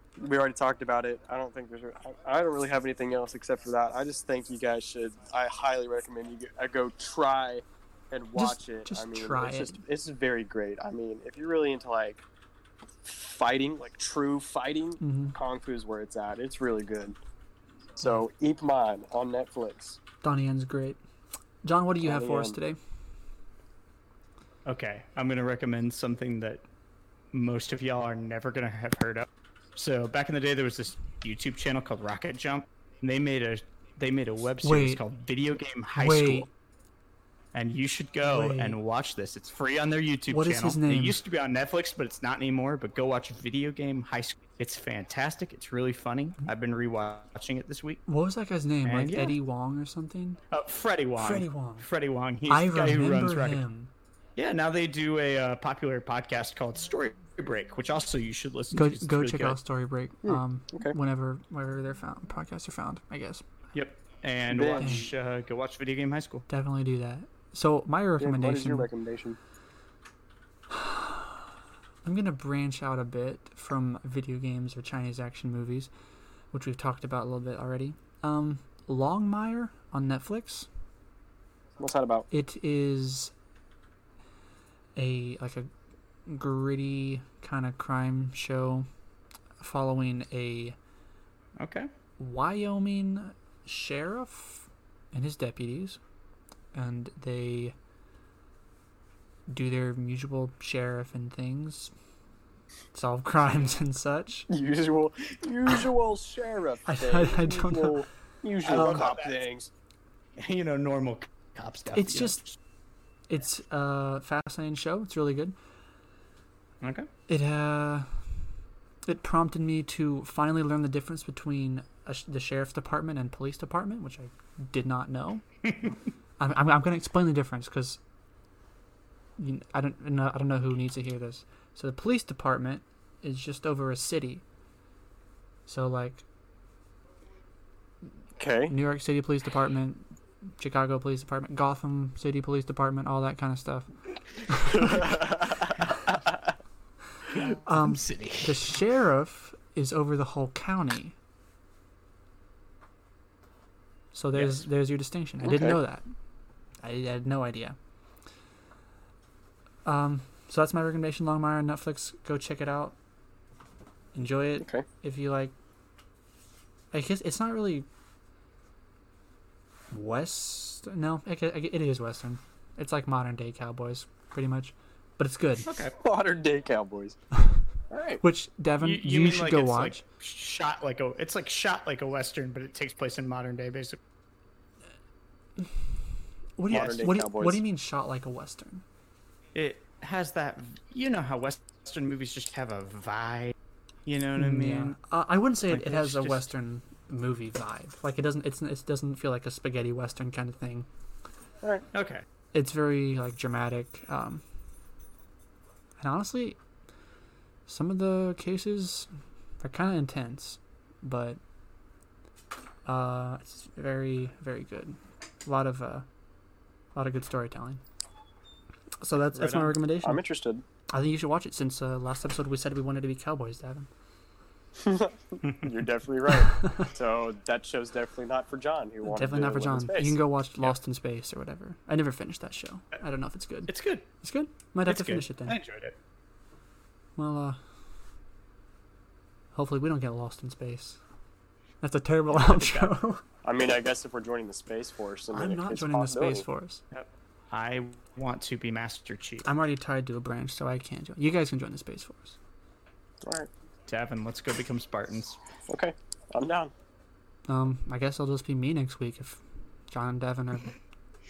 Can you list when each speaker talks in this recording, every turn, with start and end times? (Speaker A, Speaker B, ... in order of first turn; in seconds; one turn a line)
Speaker A: 0.2-12.2
Speaker B: 8.3-9.8
Speaker A: 13.0-17.2
Speaker B: 15.0-15.3
Speaker A: 18.0-20.0
Speaker B: 20.2-21.0
Speaker B: 21.6-22.8
Speaker A: 22.0-22.6
Speaker C: 24.6-26.6
Speaker C: 27.3-36.5
Speaker B: 34.6-35.0
Speaker B: 36.0-36.5
Speaker C: 37.5-48.0
Speaker B: 38.2-38.8
Speaker B: 40.3-41.2
Speaker B: 48.1-50.4
Speaker C: 48.8-49.4
Speaker C: 50.5-53.6
Speaker B: 51.2-51.9
Speaker B: 52.5-53.9
Speaker C: 54.4-59.6
Speaker B: 58.7-63.4
Speaker A: 60.2-60.9
Speaker C: 63.7-66.5
Speaker A: 64.5-65.0
Speaker B: 64.8-65.1
Speaker B: 66.5-68.9
Speaker A: 68.2-69.4
Speaker B: 70.7-71.4
Speaker B: 72.0-75.9
Speaker B: 76.5-80.7
Speaker A: 81.8-82.3
Speaker B: 82.3-83.3
Speaker B: 85.0-85.7
Speaker B: 86.2-88.8
Speaker B: 89.6-90.7
Speaker C: 91.6-91.9
Speaker B: 92.2-96.0
Speaker B: 96.7-97.7
Speaker B: 99.5-101.9
Speaker B: 102.9-104.5
Speaker A: 104.5-109.7
Speaker B: 106.9-108.0
Speaker C: 108.6-109.4
Speaker B: 108.7-109.1
Speaker C: 110.4-112.5
Speaker B: 111.9-112.4
Speaker B: 113.3-115.5
Speaker C: 116.8-117.1
Speaker B: 117.3-118.1
Speaker B: 119.0-125.4
Speaker C: 125.7-126.0
Speaker B: 126.4-128.0
Speaker B: 129.4-134.4
Speaker B: 135.7-136.2
Speaker A: 138.4-138.7
Speaker B: 138.7-140.0
Speaker B: 140.6-143.9
Speaker B: 144.5-145.1
Speaker A: 144.9-145.7
Speaker C: 147.3-148.6
Speaker B: 147.6-151.1
Speaker B: 154.1-156.0
Speaker C: 154.3-154.6
Speaker A: 155.4-155.8
Speaker B: 156.8-157.8
Speaker B: 159.8-162.9
Speaker B: 164.1-165.5
Speaker A: 164.6-164.8
Speaker B: 166.9-167.8
Speaker B: 169.9-175.7
Speaker C: 175.6-175.9
Speaker A: 176.0-177.2
Speaker A: 177.9-178.2
Speaker B: 178.2-180.0
Speaker C: 178.8-184.0
Speaker B: 186.6-188.8
Speaker A: 186.7-187.6
Speaker C: 189.5-193.5
Speaker C: 194.1-195.0
Speaker B: 194.4-200.9
Speaker C: 195.7-196.4
Speaker C: 201.9-202.2
Speaker B: 202.5-204.4
Speaker B: 206.0-206.6
Speaker B: 207.7-209.1
Speaker B: 209.6-211.4
Speaker B: 212.8-216.1
Speaker B: 216.9-217.8
Speaker B: 219.0-220.2
Speaker C: 219.3-219.8
Speaker A: 220.0-220.6
Speaker B: 220.9-223.9
Speaker A: 224.8-230.2
Speaker B: 226.5-226.9
Speaker B: 229.0-235.6
Speaker C: 233.7-234.1
Speaker C: 234.8-235.9
Speaker B: 237.2-237.6
Speaker B: 239.5-241.0
Speaker B: 241.8-243.2
Speaker C: 242.3-242.9
Speaker A: 243.4-246.4
Speaker B: 245.3-246.8
Speaker C: 246.9-249.5
Speaker B: 249.4-252.3
Speaker A: 253.2-253.5
Speaker C: 253.9-255.4
Speaker A: 255.7-256.7
Speaker B: 257.5-260.7